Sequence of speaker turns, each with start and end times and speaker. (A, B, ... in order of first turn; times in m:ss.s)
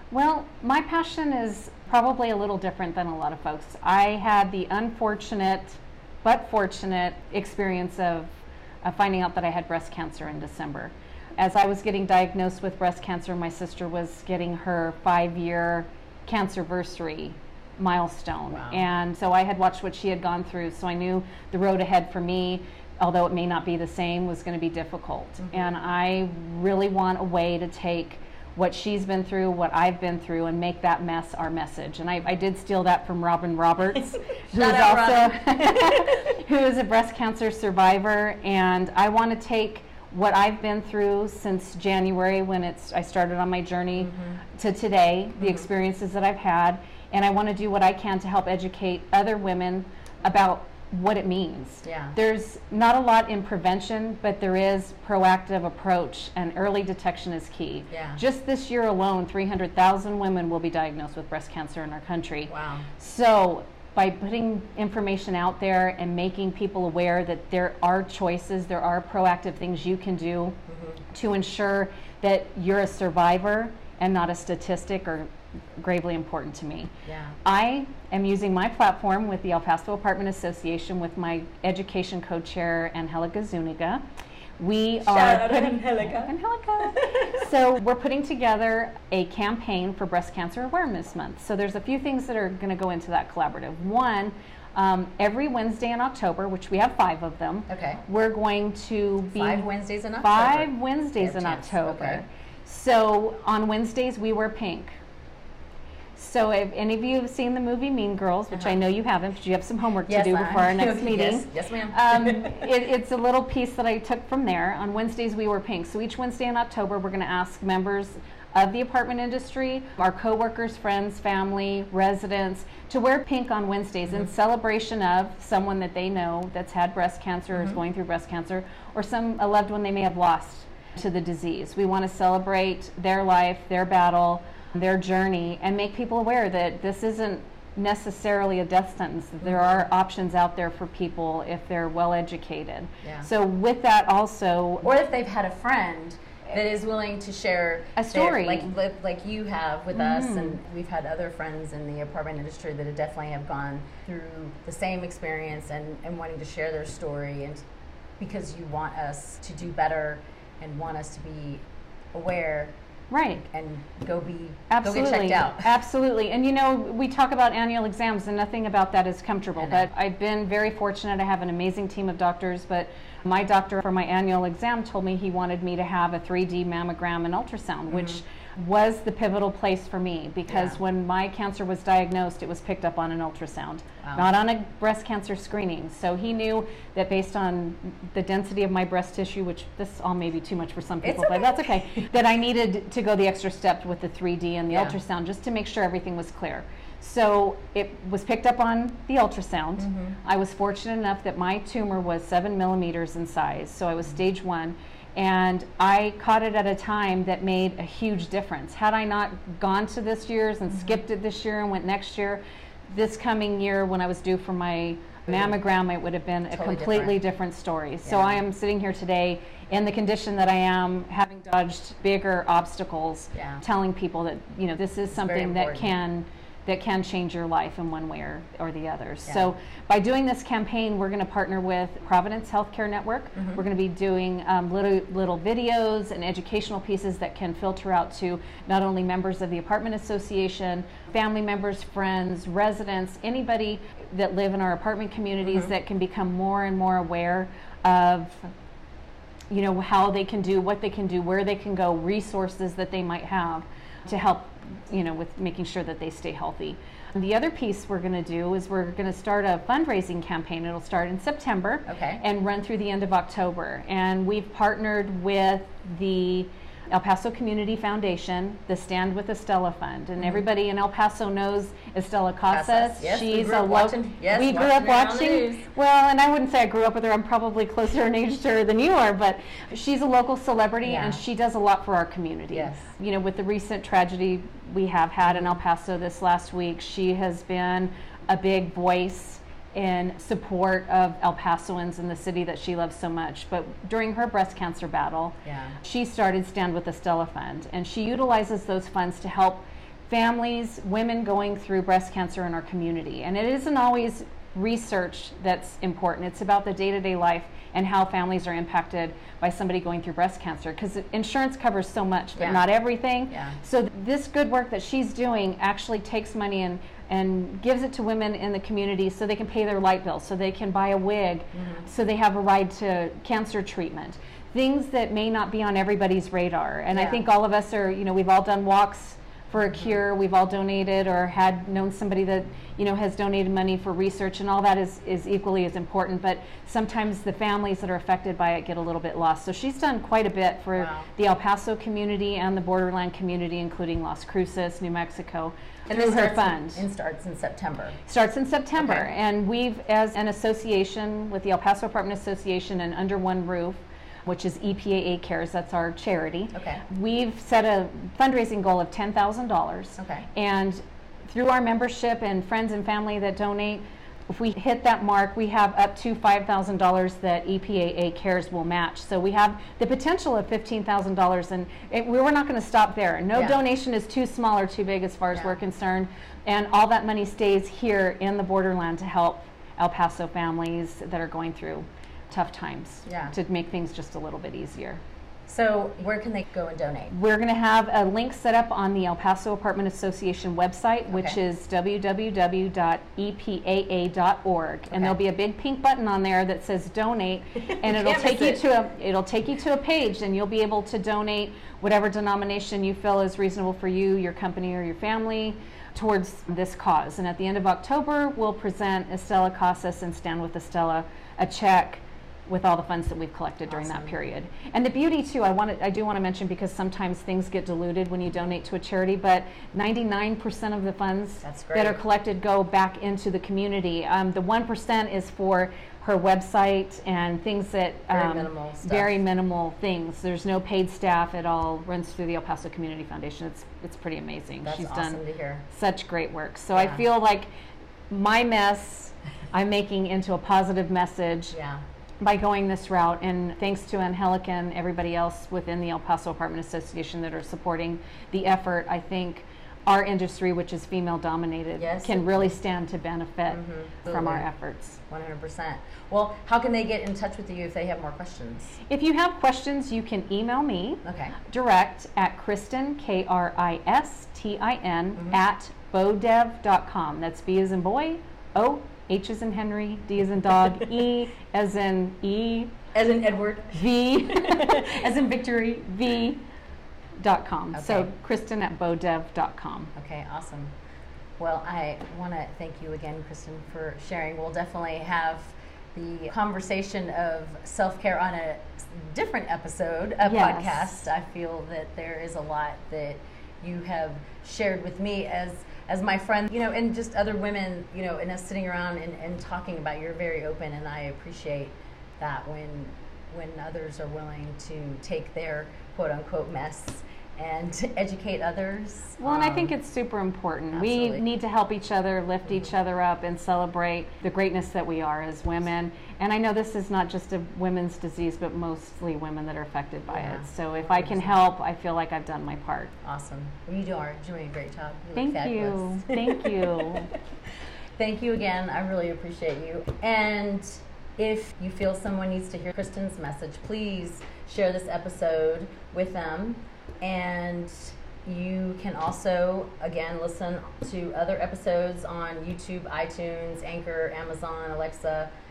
0:00.1-1:10.6 A
0:18.5-0:18.8 B
0:25.4-0:25.7 B
0:34.5-0:36.1 B
0:44.0-0:44.4 B
0:45.4-0:45.7 B
0:51.8-0:52.2 B
0:57.9-0:58.2 B
1:02.5-1:02.9 B
1:10.7-1:11.0 B
1:11.1-1:16.9 A
1:17.0-1:17.4 B
1:17.4-1:24.0 A
1:24.6-1:39.7 A
1:25.0-1:27.4 B
1:37.7-1:38.0 B
1:39.3-1:42.2 B
1:40.2-1:45.0 A
1:46.2-2:24.9 A
1:48.5-1:48.8 B
1:50.1-1:52.6 B
2:07.5-2:07.8 B
2:19.4-2:19.8 B
2:23.0-2:23.3 B
2:24.8-2:37.6 B
2:28.0-2:28.7 A
2:29.9-2:30.6 A
2:38.2-2:41.6 B
2:42.1-2:42.7 B
2:43.1-2:43.4 A
2:43.4-2:45.7 B
2:44.7-4:08.5 A
2:49.6-2:49.9 B
2:57.9-2:58.2 B
3:00.5-3:00.8 B
3:04.0-3:04.3 B
3:11.0-3:12.1 B
3:14.7-3:15.0 B
3:19.8-3:20.2 B
3:30.7-3:31.0 B
3:35.3-3:35.6 B
3:36.5-3:37.2 B
3:38.0-3:38.4 B
3:43.3-3:43.6 B
3:45.1-3:45.9 B
3:49.3-3:49.5 B
3:53.4-3:53.6 B
4:05.4-4:05.7 B
4:09.5-5:46.9 A
4:21.9-4:22.2 B
4:32.5-4:35.7 B
4:40.8-4:41.2 B
4:42.5-4:42.9 B
4:45.3-4:45.5 B
4:55.4-4:55.8 B
5:12.4-5:12.6 B
5:13.3-5:13.6 B
5:21.5-5:21.9 B
5:26.9-5:27.2 B
5:40.8-5:41.1 B
5:45.9-5:48.0 B
5:48.1-6:25.0 A
5:48.8-5:49.1 B
5:56.5-5:56.8 B
6:00.0-6:00.3 B
6:15.3-6:15.6 B
6:23.1-6:23.4 B
6:25.5-6:27.1 B
6:27.1-7:17.5 A
6:31.1-6:31.4 B
6:34.9-6:35.2 B
6:37.7-6:38.6 B
6:53.7-6:54.2 B
7:01.4-7:02.0 B
7:08.1-7:09.2 B
7:14.6-7:15.6 B
7:16.7-7:17.0 B
7:18.1-7:21.6 A
7:21.5-7:21.8 B
7:22.2-7:35.0 A
7:31.8-7:32.6 B
7:33.5-7:34.5 B
7:35.1-7:38.8 B
7:38.8-7:52.8 A
7:41.0-7:41.4 B
7:52.9-7:55.9 B
7:53.7-7:55.0 A
7:55.8-7:56.4 A
7:57.2-7:59.9 A
7:57.7-7:58.1 B
8:00.0-8:00.7 B
8:01.4-8:29.7 B
8:10.2-8:10.9 A
8:29.2-8:42.9 A
8:30.7-8:31.2 B
8:40.1-8:41.4 B
8:43.0-8:46.9 B
8:45.2-8:47.1 A
8:48.0-9:05.3 B